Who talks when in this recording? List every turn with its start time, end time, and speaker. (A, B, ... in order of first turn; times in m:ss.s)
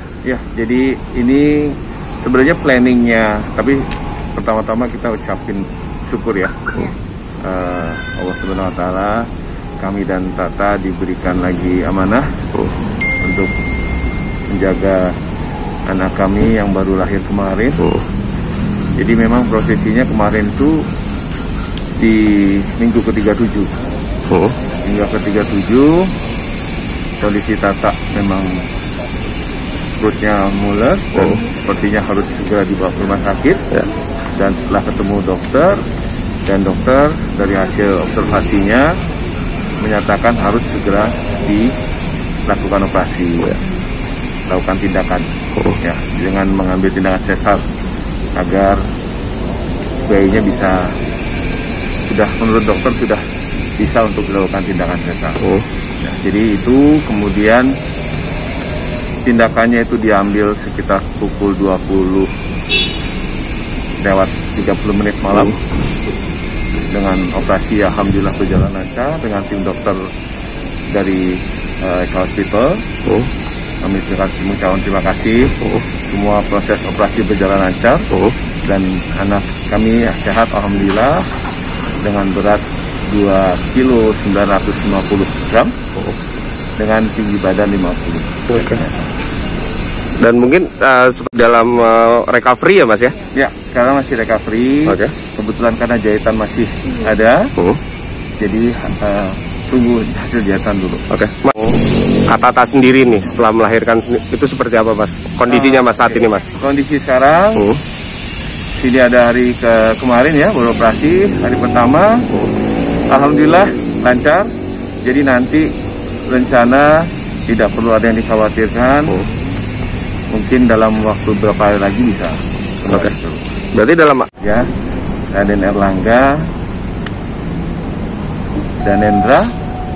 0:00.2-0:06.9 A
0:07.4-0:09.3 A
0:09.8-0:12.4 A
0:13.2-0:13.5 A
0:14.5-0:15.2 A
0:15.9-0:17.8 A
0:19.0-0:20.8 A
0:22.0-0:23.8 A
0:24.3-0:24.6 B
0:24.8-0:26.1 A
0:27.2-0:28.6 A
0:30.0-0:33.6 A
0:31.1-0:31.4 B
0:34.3-0:35.8 A
0:36.4-0:38.9 A
0:39.8-0:41.7 A
0:42.5-0:43.6 A
0:44.5-0:47.6 A
0:48.4-0:48.8 A
0:50.0-0:51.0 A
0:52.1-0:53.2 A
0:53.8-0:55.4 A
0:56.0-0:57.7 A
0:59.2-1:02.3 A
1:04.0-1:05.5 A
1:05.3-1:05.6 B
1:06.9-1:10.0 A
1:10.9-1:12.8 A
1:13.0-1:13.3 B
1:13.8-1:15.6 A
1:16.1-1:18.1 A
1:18.6-1:21.3 A
1:22.0-1:25.7 A
1:26.8-1:29.1 A
1:28.5-1:28.8 B
1:30.2-1:33.2 B
1:33.3-1:37.5 A
1:34.9-1:35.1 B
1:38.4-1:41.0 A
1:41.1-1:46.5 B
1:45.5-1:47.7 A
1:47.6-1:47.8 B
1:48.8-1:52.3 A
1:53.1-1:54.5 A
1:55.0-1:55.7 A
1:56.3-1:59.2 A
2:00.3-2:03.4 A
2:03.7-2:04.3 B
2:04.4-2:04.7 A
2:05.3-2:06.5 A
2:08.8-2:09.5 A